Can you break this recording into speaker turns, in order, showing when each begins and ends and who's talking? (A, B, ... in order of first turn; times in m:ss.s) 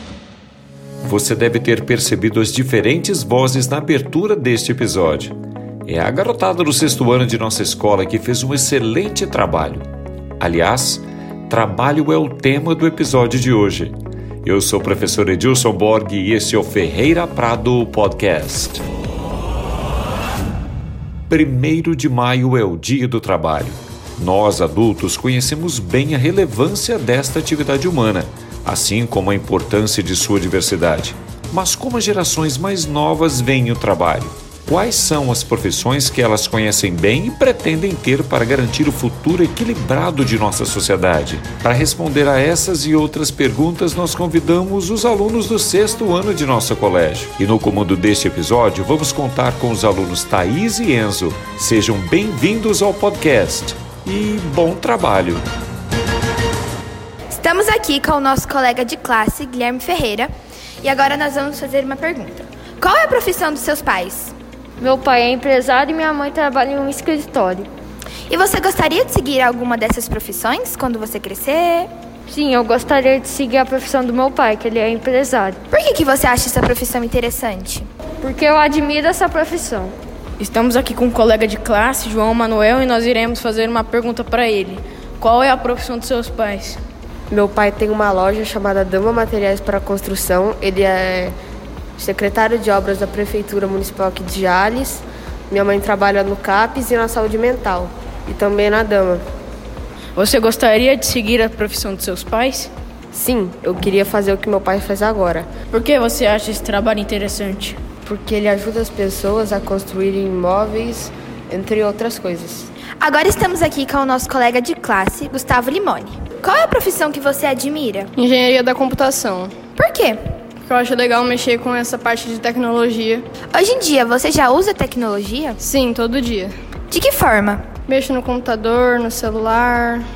0:01.0-0:09.8 A
0:10.4-0:18.8 A
0:21.3-0:55.4 A
0:57.3-1:00.3 B
1:00.8-1:04.3 B
1:04.8-1:07.7 C
1:08.3-1:11.9 B
1:12.3-1:15.6 C
1:15.7-1:17.9 B
1:18.2-1:19.9 C
1:20.4-1:26.8 D
1:27.3-1:31.3 E
1:32.0-1:39.2 E
1:40.2-1:42.7 D
1:43.1-1:45.5 E
1:45.7-1:47.8 D
1:48.0-1:52.7 E
1:53.0-1:58.1 B
1:58.2-1:59.5 F
1:59.8-2:00.2 B
2:00.7-2:03.2 F
2:03.5-2:05.6 B
2:05.6-2:06.5 F
2:06.9-2:07.6 B
2:07.9-2:10.0 F